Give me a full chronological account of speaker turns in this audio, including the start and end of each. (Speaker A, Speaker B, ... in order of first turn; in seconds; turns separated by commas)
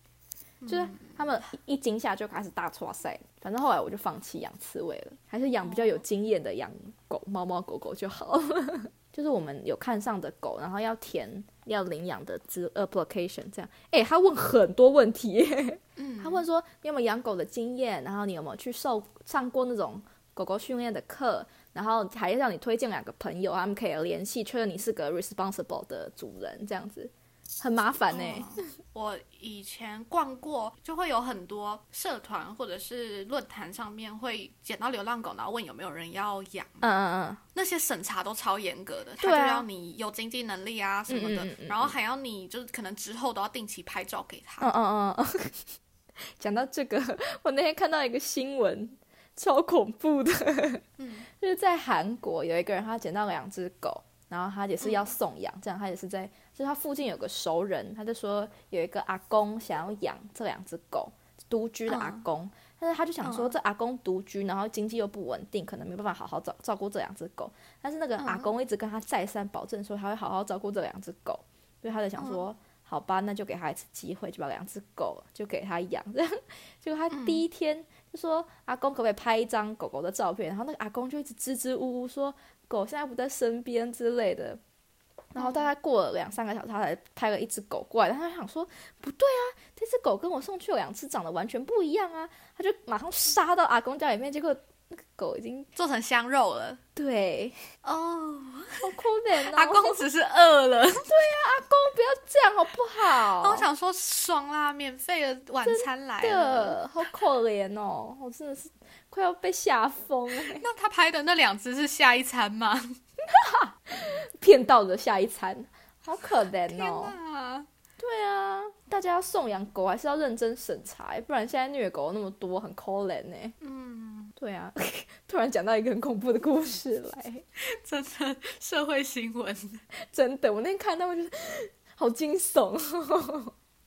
Speaker A: 0.6-1.2, Speaker B: 0.7-28.5, Speaker A: 5.6-6.0, Speaker A: 16.0-16.4, Speaker A: 28.1-36.8, Speaker B: 36.8-37.4, Speaker A: 37.5-44.7, Speaker B: 39.2-39.6, Speaker B: 41.1-41.9, Speaker B: 44.6-45.7, Speaker B: 46.3-84.6, Speaker A: 51.0-51.2, Speaker A: 54.8-55.1, Speaker A: 61.9-62.2, Speaker A: 63.2-63.5, Speaker A: 68.2-68.5, Speaker A: 72.2-72.4, Speaker A: 77.1-77.4, Speaker B: 85.3-95.7, Speaker A: 85.4-85.6, Speaker A: 95.8-96.8, Speaker B: 97.0-97.6, Speaker A: 97.8-101.1, Speaker B: 98.8-100.0, Speaker B: 101.0-103.7, Speaker A: 103.0-106.8, Speaker B: 105.6-110.6, Speaker A: 110.5-113.0, Speaker B: 113.3-117.2, Speaker A: 116.7-117.7, Speaker B: 118.0-123.5, Speaker A: 123.6-124.3, Speaker B: 124.4-127.4, Speaker A: 127.6-129.8, Speaker B: 130.1-133.5